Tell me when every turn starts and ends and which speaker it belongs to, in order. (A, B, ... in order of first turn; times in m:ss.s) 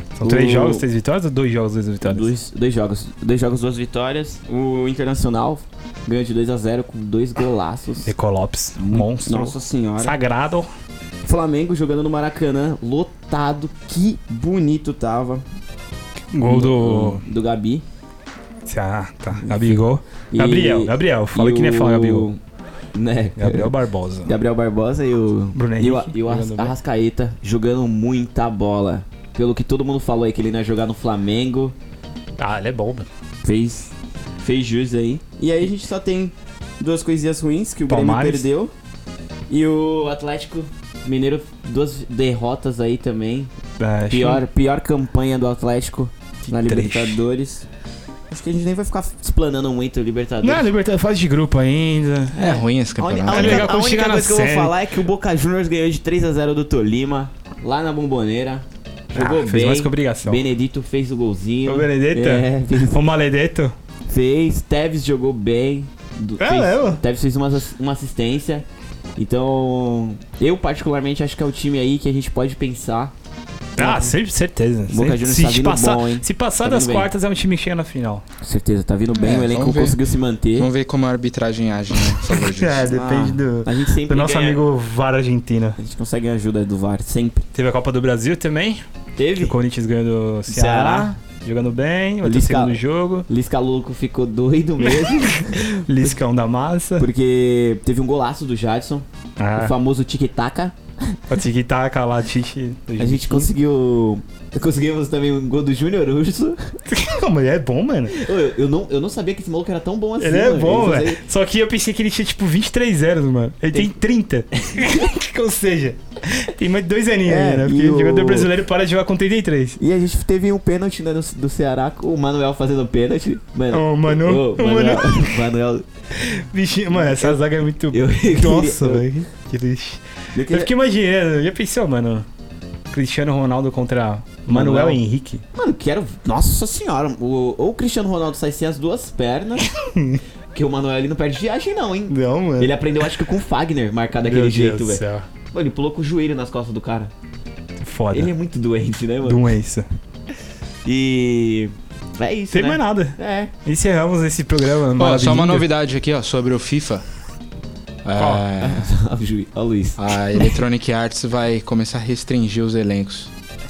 0:00.2-0:02.3 A
0:00.2-0:00.8 B
0:02.0-0:08.1 B
0:08.0-0:10.7 A
0:08.8-0:10.1 B
0:11.3-0:15.4 B
0:16.3-0:17.2 A
0:16.4-0:17.8 B
0:18.7-0:22.3 A
0:19.4-0:22.4 B
0:22.9-0:31.8 B
0:23.4-0:24.3 A
0:25.5-0:26.7 A
0:32.4-0:33.1 A
0:33.4-0:38.7 B
0:37.9-0:38.5 A
0:39.5-0:43.5 B
0:43.8-0:44.4 A
0:44.1-0:47.7 B
0:46.7-0:47.2 A
0:48.3-0:50.7 B
0:50.4-0:52.4 A
0:52.4-1:03.0 B
0:52.4-0:53.7 C
0:53.3-0:54.7 A
0:59.1-1:00.4 A
1:01.7-1:03.8 A
1:04.1-1:08.6 B
1:06.4-1:07.0 A
1:09.2-1:13.1 B
1:13.8-1:14.2 B
1:13.8-1:18.2 A
1:14.9-1:17.1 B
1:18.4-1:20.7 B
1:19.1-1:20.0 C
1:20.6-1:22.9 C
1:22.2-1:25.8 A
1:22.9-1:24.6 B
1:25.8-1:27.5 B
1:27.6-1:28.8 A
1:29.2-1:29.6 B
1:29.4-1:33.3 A
1:30.5-1:31.1 B
1:32.2-1:35.7 B
1:34.8-1:37.1 A
1:37.0-1:41.2 B
1:39.4-1:39.7 A
1:41.3-1:43.5 A
1:43.0-1:46.6 B
1:46.9-1:48.2 A
1:48.1-1:51.2 B
1:50.2-1:59.8 A
1:54.7-1:55.1 B
1:57.2-1:58.5 B
1:59.8-2:05.8 B
2:03.7-2:05.3 A
2:06.2-2:12.3 A
2:06.9-2:09.1 B
2:10.4-2:10.7 B
2:12.9-2:15.4 A
2:14.5-2:15.0 B
2:15.5-2:19.7 B
2:19.8-2:20.2 A
2:20.5-2:27.1 B
2:22.1-2:22.7 A
2:24.2-2:25.3 A
2:27.8-2:28.3 A
2:28.1-2:29.5 B
2:29.2-2:29.9 A
2:30.8-2:33.5 B
2:32.5-2:35.7 A
2:35.0-2:37.0 C
2:38.0-2:38.9 C
2:38.2-2:38.5 A
2:38.6-2:40.6 B
2:40.0-2:43.3 C